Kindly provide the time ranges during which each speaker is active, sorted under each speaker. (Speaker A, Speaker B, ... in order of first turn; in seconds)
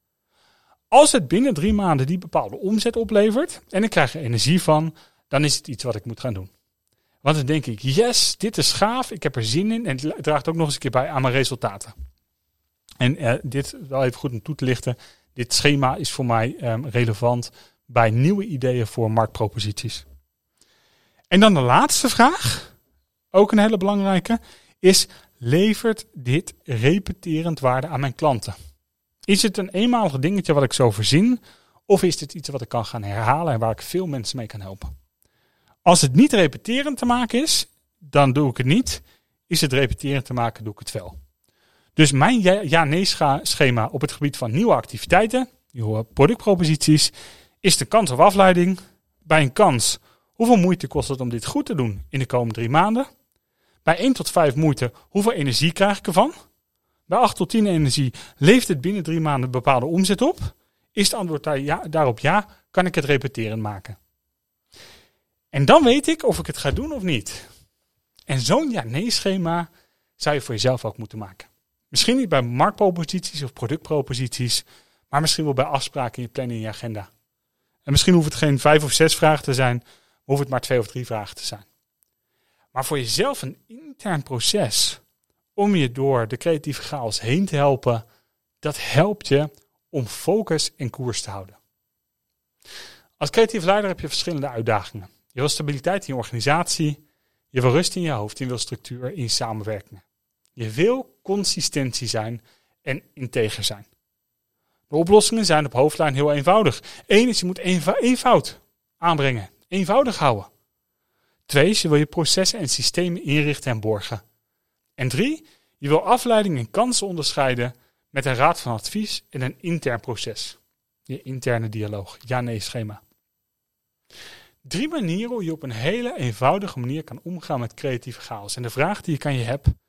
Speaker A: 0.9-6.5, 7.2-11.9, 13.0-20.0, 21.3-22.7, 23.3-28.5, 29.3-34.9, 35.8-41.1, 42.0-53.1, 53.8-56.3, 57.1-64.0, 65.5-67.5, 68.3-77.1, 77.8-81.7, 82.7-85.0, 85.5-88.0, 88.6-91.6, 93.2-97.0, 97.5-100.0, 100.5-103.9, 104.9-110.5, 111.5-114.2, 115.0-123.0, 124.6-129.7